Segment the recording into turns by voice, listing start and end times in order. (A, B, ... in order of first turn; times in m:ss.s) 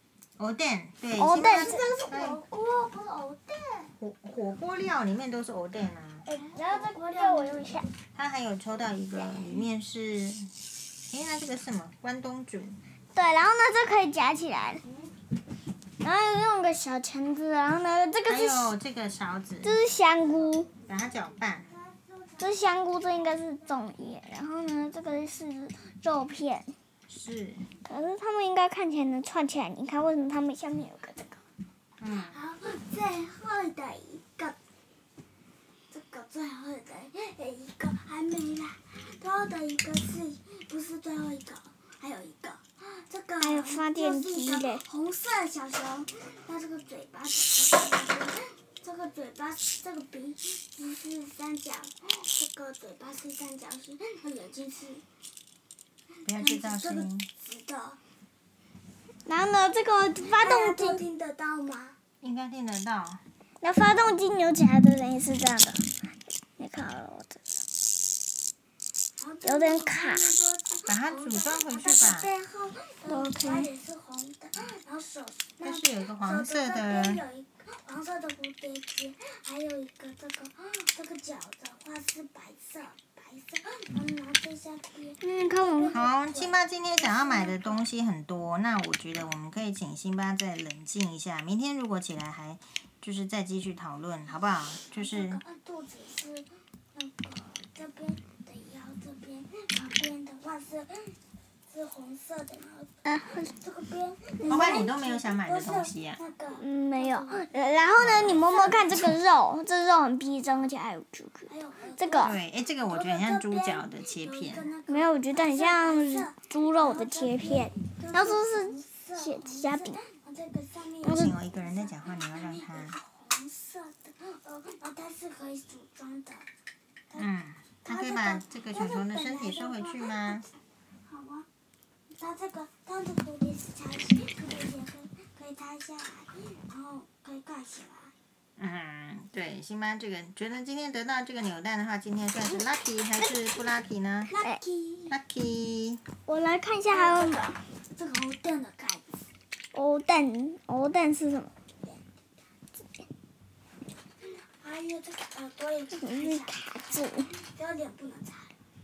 0:00.4-0:02.4 A
0:01.2-0:01.8 B
0:01.4-0:03.9 C
0:04.0-0:06.3 A
0:06.3-0:07.9 B
0:06.3-0:07.9 C
0:08.1-0:10.5 A
0:11.1-0:12.8 A
0:13.2-0:14.8 B
0:16.0-0:18.7 B
0:18.3-0:19.8 A
0:19.6-0:20.7 B
0:20.9-0:21.7 A
0:21.6-0:23.5 C
0:22.4-0:26.7 B
0:27.1-0:27.6 A
0:27.8-0:31.4 B
0:32.0-0:32.4 A
0:32.3-0:34.6 C
0:35.9-0:55.0 C
0:43.4-0:44.8 B
0:56.2-0:57.3 A
0:56.3-0:58.0 C
0:59.3-1:01.0 B
1:00.3-1:02.0 C
1:02.2-1:03.2 A
1:03.6-1:05.8 B
1:06.6-1:07.4 B
1:09.2-1:27.9 C
1:09.4-1:10.4 B
1:10.9-1:12.3 A
1:13.1-1:13.7 B
1:15.6-1:17.2 A
1:25.2-1:26.0 B
1:25.9-1:35.4 A
1:34.9-1:41.2 C
1:41.7-1:49.2 C
1:43.0-1:43.5 B
1:44.4-1:44.9 B
1:44.5-1:46.2 A
1:46.6-1:52.4 B
1:48.0-1:48.5 A
1:51.5-2:06.5 C
1:52.2-1:54.7 A
1:54.9-2:00.0 B
2:01.0-2:01.4 B
2:01.1-2:03.0 A
2:07.2-2:10.5 A
2:07.8-2:10.4 C
2:11.1-2:11.5 C
2:12.1-2:18.1 C
2:18.6-2:24.4 A
2:24.3-2:25.2 C
2:25.1-2:26.0 A
2:26.3-2:27.5 B
2:26.9-2:29.2 C
2:29.7-2:31.5 B
2:34.4-2:38.5 C
2:36.0-2:37.3 B